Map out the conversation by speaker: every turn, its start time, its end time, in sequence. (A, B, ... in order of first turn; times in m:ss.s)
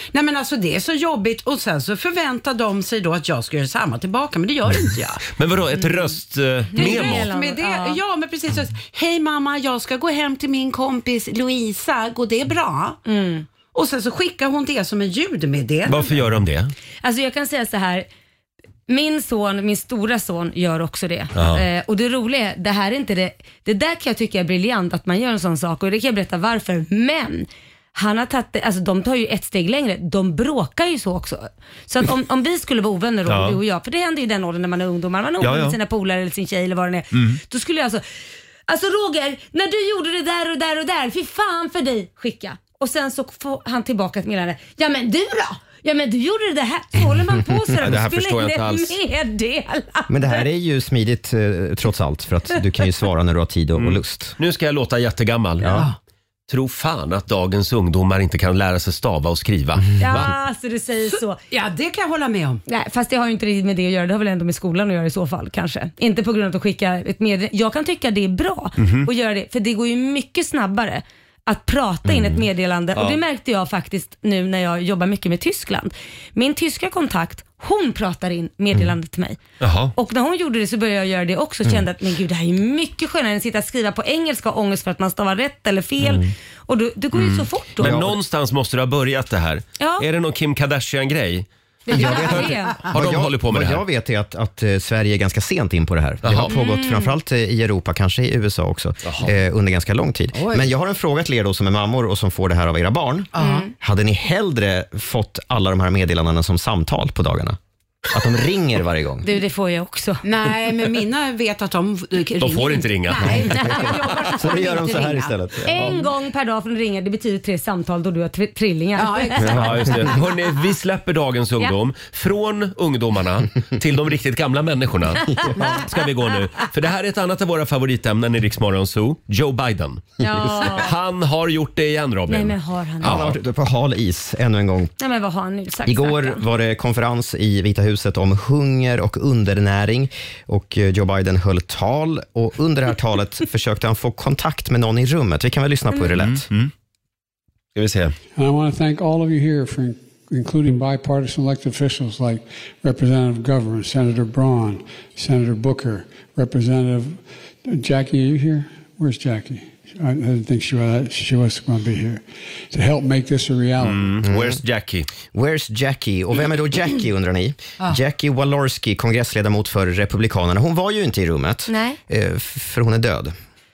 0:00.1-0:05.2 A
0:05.3-0:07.3 B
0:06.7-0:08.0 C
0:06.7-0:13.0 A
0:13.0-0:13.5 C
0:13.7-0:16.2 A
0:15.9-0:16.7 B
0:17.0-0:18.1 C
0:18.9-0:38.0 C
0:21.3-0:21.6 B
0:33.3-0:33.6 B
0:35.4-0:35.8 B
0:37.1-0:37.4 B
0:38.7-0:50.5 C
0:47.8-0:48.9 B
0:50.1-0:54.3 D
0:53.8-0:55.7 B
0:55.6-0:55.9 D
0:55.6-0:56.0 A
0:56.5-1:00.3 B
1:00.0-1:01.4 C
1:01.5-1:02.6 A
1:02.7-1:19.4 C
1:08.8-1:09.1 B
1:12.1-1:12.4 D
1:12.9-1:13.2 B
1:19.6-1:19.9 B
1:19.9-1:28.0 C
1:26.0-1:26.3 D
1:27.1-1:33.8 B
1:27.8-1:28.2 D
1:29.8-1:30.0 C
1:31.9-1:32.8 C
1:31.9-1:47.6 D
1:36.2-1:36.5 B
1:36.5-1:37.2 C
1:39.0-1:39.3 B
1:40.3-1:40.7 A
1:43.3-1:43.7 A
1:43.4-1:43.7 C
1:48.1-1:49.2 D
1:49.2-1:50.2 C
1:50.2-1:56.0 A
1:52.4-1:53.4 B
1:53.2-1:56.0 D
1:53.5-1:53.8 C
1:55.6-1:59.7 C
1:59.0-1:59.7 A
1:59.4-2:13.3 B
2:10.2-2:10.9 C
2:12.3-2:13.3 C
2:13.0-2:14.9 D
2:15.0-2:16.4 C
2:15.8-2:26.5 D
2:26.2-2:26.7 B
2:27.7-2:28.1 B
2:28.4-2:44.2 E
2:43.8-2:45.1 B
2:44.2-2:44.6 D
2:45.3-2:53.3 D
2:51.7-2:52.0 C